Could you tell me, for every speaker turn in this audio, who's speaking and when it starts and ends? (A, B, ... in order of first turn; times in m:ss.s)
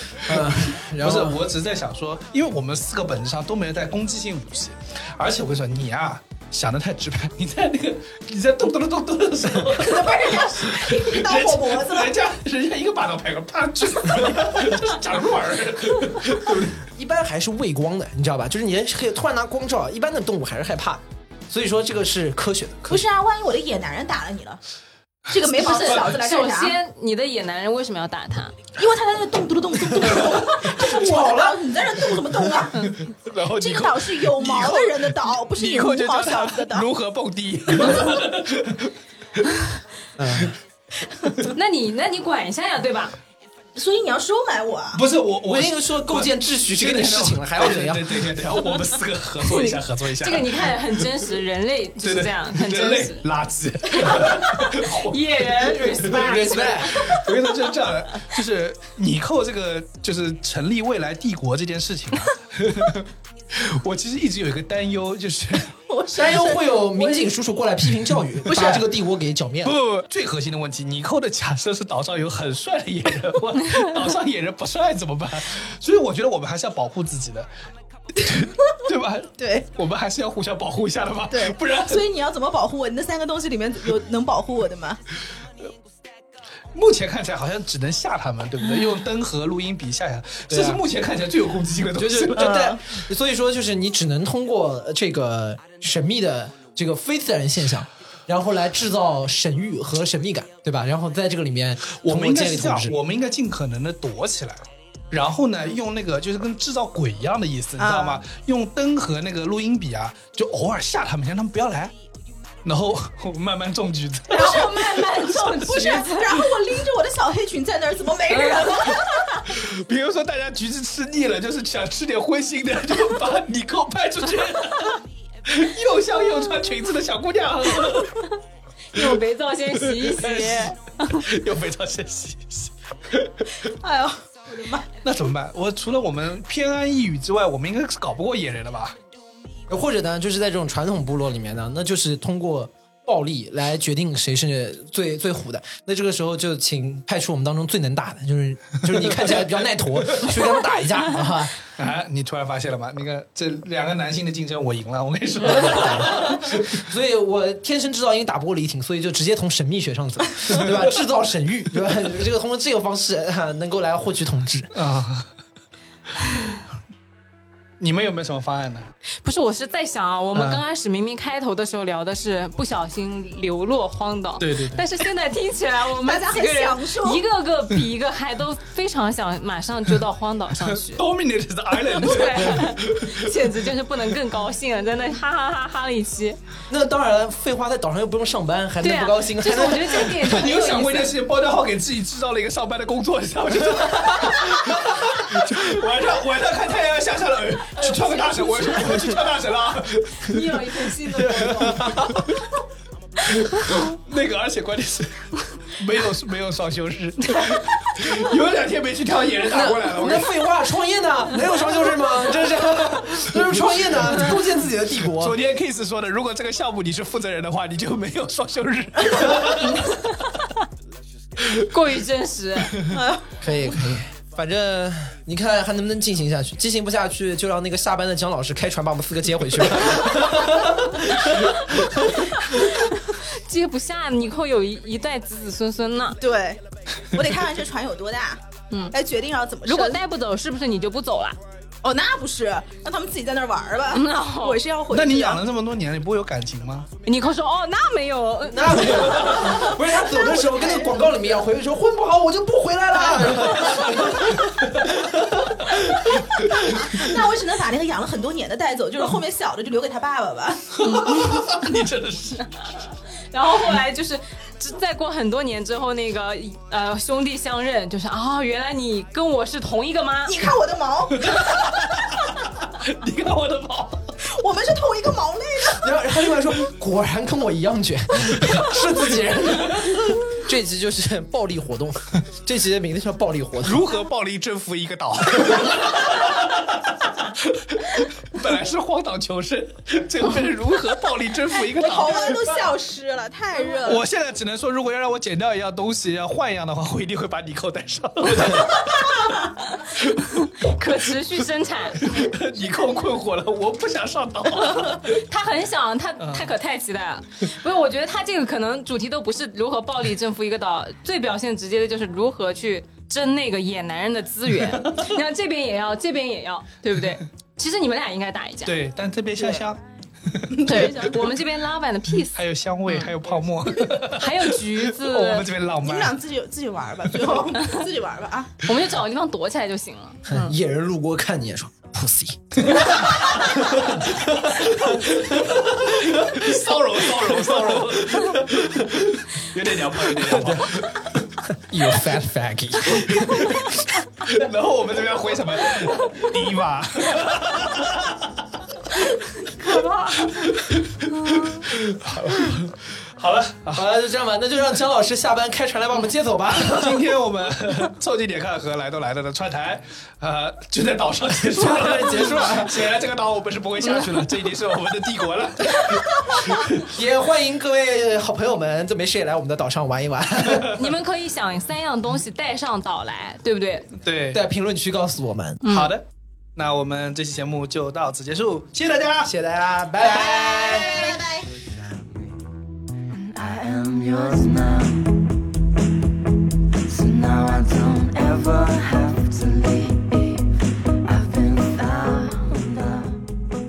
0:00.2-0:01.4 A
0:00.3-0:16.8 B
0:09.6-0:12.1 C
0:16.8-0:23.0 A
0:22.9-0:24.6 C
0:25.3-0:26.8 C
0:25.5-0:28.5 D
0:28.8-0:33.0 C
0:30.0-0:31.6 A
0:32.9-0:39.7 B
0:33.6-0:36.9 C
0:40.2-0:40.6 A
0:41.5-0:43.1 D
0:43.7-0:45.0 C
0:44.9-0:51.0 B
0:45.4-0:48.3 A
0:49.5-0:53.2 D
0:52.0-1:05.8 B
0:54.0-0:57.0 D
0:56.0-0:57.2 A
1:05.9-1:07.2 C
1:06.1-1:09.7 A
1:08.5-1:08.8 C
1:09.6-1:17.5 B
1:18.1-1:22.0 B
1:19.4-1:19.6 C
1:21.3-1:25.0 C
1:26.7-1:32.7 B
1:30.5-1:30.8 A
1:31.9-1:43.0 A
1:32.4-1:32.8 C
1:42.0-1:51.9 B
1:47.8-1:48.2 C
1:52.6-1:55.6 B
1:54.3-1:56.4 D
1:54.3-1:54.9 C
1:55.6-1:59.4 C
1:58.3-1:59.0 D
1:59.4-2:08.3 B
2:08.9-2:11.2 D
2:09.8-2:13.4 B
2:13.6-2:14.8 C
2:15.0-2:19.0 B
2:19.7-2:31.6 A
2:31.7-2:36.8 B
2:35.4-2:44.7 A
2:44.7-2:45.3 B
2:46.3-2:46.6 B
2:47.8-2:48.9 B
2:49.2-3:01.0 D
2:50.3-2:50.6 B
2:54.4-2:54.8 B
2:56.0-2:57.2 C
3:00.7-3:03.6 B
3:01.9-3:06.4 D
3:02.4-3:02.7 A
3:06.7-3:10.1 A
3:08.8-3:11.2 D
3:10.0-3:20.6 B
3:17.8-3:19.2 D
3:20.2-3:21.8 D
3:21.2-3:22.3 A
3:21.2-3:22.4 B
3:23.3-3:30.4 B
3:29.4-3:35.4 A
3:35.1-3:40.2 B
3:41.6-3:42.8 D
3:42.9-3:43.2 C
3:43.4-3:52.3 A
3:53.4-3:56.2 D
3:56.2-3:58.4 C
3:58.9-4:00.0 C
3:59.6-4:01.4 D
4:01.8-4:05.4 C
4:03.9-4:04.6 D
4:04.9-4:06.9 B
4:07.0-4:09.5 D
4:08.4-4:15.7 A
4:09.2-4:11.0 C
4:13.5-4:14.2 B
4:16.6-4:20.8 C
4:20.7-4:22.6 B
4:20.8-4:21.3 D
4:23.3-4:30.4 D
4:30.2-4:31.6 C
4:31.2-4:34.1 B
4:34.2-4:35.8 C
4:35.7-4:43.9 A
4:43.6-4:52.6 B
4:51.7-4:54.0 C
4:53.8-5:00.7 B
5:00.4-5:02.0 D
5:02.0-5:05.2 B
5:04.8-5:18.7 D
5:06.2-5:06.5 B
5:18.6-5:19.8 B
5:19.4-5:19.6 C
5:20.3-5:20.9 B
5:20.5-5:21.4 C
5:20.6-5:23.1 D
5:22.3-5:26.2 B
5:23.9-5:25.5 D
5:25.8-5:28.6 C
5:27.1-5:27.4 B
5:28.6-5:30.5 D
5:30.2-5:36.4 A
5:32.6-5:33.2 B
5:33.8-5:41.2 B
5:37.2-5:38.8 A
5:40.2-5:40.8 A
5:41.5-5:43.7 A
5:43.1-5:43.7 B
5:44.2-5:48.4 B
5:49.4-5:50.4 D
5:50.2-5:53.9 B
5:53.7-5:57.0 A
5:56.5-6:06.9 B
6:01.4-6:02.8 A
6:03.8-6:04.1 D
6:06.8-6:10.8 A
6:10.7-6:13.9 D
6:14.0-6:14.4 B
6:14.3-6:15.6 A
6:15.6-6:15.9 D
6:15.6-6:19.3 B
6:19.2-6:21.3 A
6:20.0-6:21.5 C
6:23.1-6:25.2 E
6:26.9-6:33.2 E